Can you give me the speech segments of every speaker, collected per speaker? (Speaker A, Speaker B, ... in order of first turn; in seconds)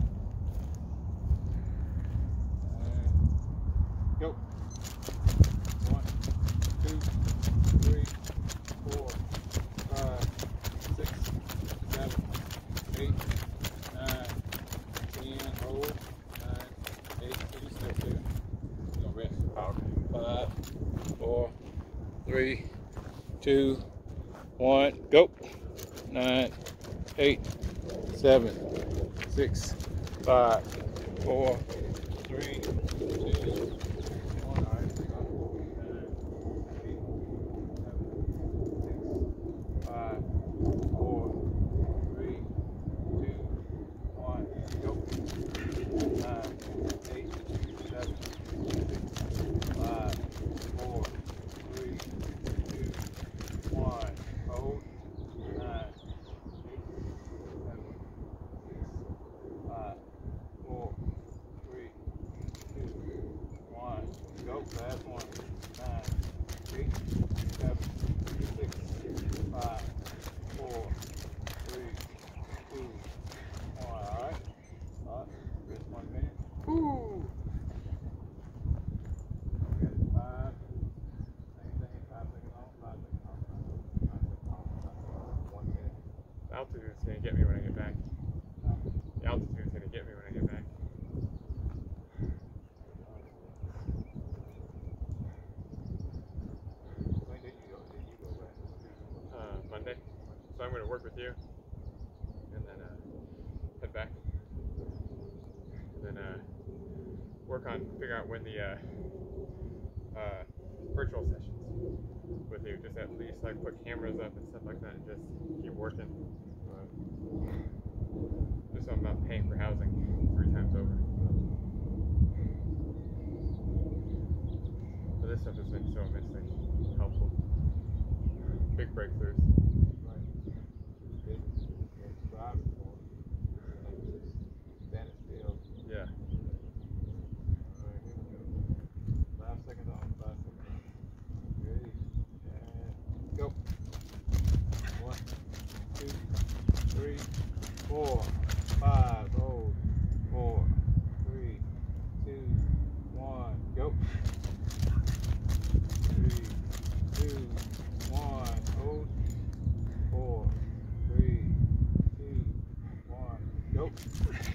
Speaker A: 2.6-3.2, 5.8-6.1, 6.7-7.1, 7.7-8.2, 8.8-9.2, 9.9-10.3, 10.8-12.3, 12.9-13.2, 13.9-14.4, 15.1-18.3, 19.0-20.5, 21.2-21.5, 22.2-22.6, 23.4-23.8, 24.6-25.4, 26.1-26.5, 27.2-27.4, 28.1-28.6, 29.2-30.7, 31.2-31.6, 32.2-33.7, 34.3-37.0, 37.8-39.3, 39.8-40.2, 40.9-41.4, 42.0-42.5, 43.1-43.6, 44.1-45.2, 46.1-49.2, 49.8-53.1, 53.7-54.9, 55.5-56.0, 56.6-57.0, 57.6-58.0, 58.6-59.0, 59.7-60.0, 60.6-61.0, 61.6-62.0, 62.7-63.1, 63.7-69.9, 70.5-71.0, 71.6-72.0, 72.7-73.1, 73.8-74.4, 75.0-77.3, 79.7-80.6, 81.6-86.0, 93.0-93.6, 97.2-99.3, 116.6-116.9, 121.2-121.6, 130.0-130.3, 131.2-133.0, 133.7-134.3, 134.9-135.6, 137.7-138.6, 139.4-140.9, 141.4-143.6, 144.9-145.2, 145.9-146.2, 146.9-147.3, 147.9-151.7, 152.2-154.0, 156.0-156.6, 157.1-159.1, 160.1-161.6, 162.1-164.0
Speaker B: 19.6-19.9, 86.5-88.0, 89.2-90.7, 99.3-100.0, 100.5-101.4, 102.5-103.0, 103.8-104.2, 106.0-106.4, 107.5-108.8, 110.1-111.7, 112.5-116.2, 118.7-121.1, 125.2-127.3, 128.8-129.5, 135.8-136.1